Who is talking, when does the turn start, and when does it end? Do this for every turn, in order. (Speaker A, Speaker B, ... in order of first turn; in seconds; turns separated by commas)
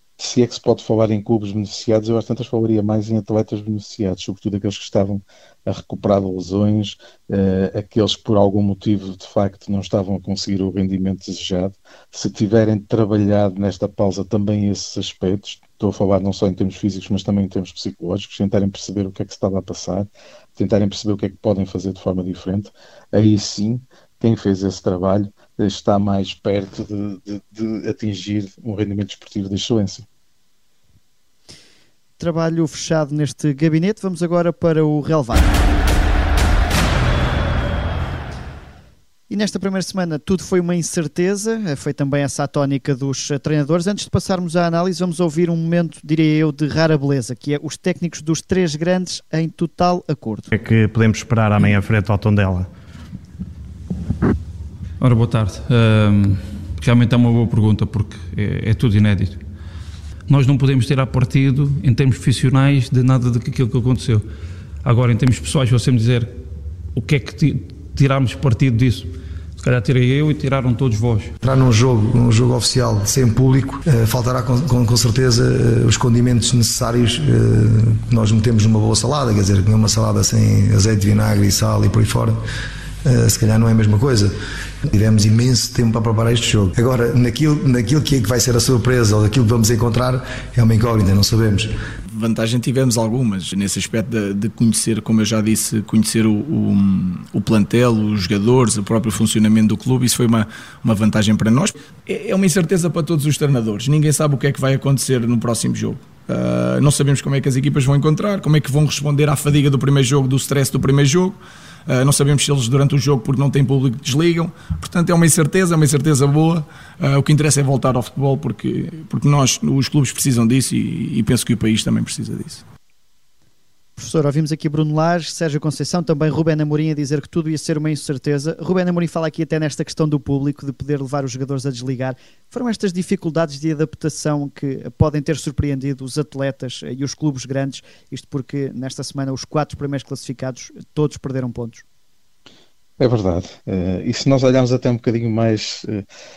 Speaker A: 0.2-30.1, Speaker B: 32.2-35.6, Speaker B: 39.3-50.5, Speaker C: 50.5-52.7, Speaker D: 55.0-59.4, Speaker D: 60.3-64.2, Speaker D: 64.8-66.3, Speaker D: 66.9-71.3, Speaker E: 71.4-82.4, Speaker E: 83.0-84.3, Speaker E: 84.9-91.7, Speaker F: 92.1-122.6, Speaker B: 124.0-141.8, Speaker A: 143.0-146.0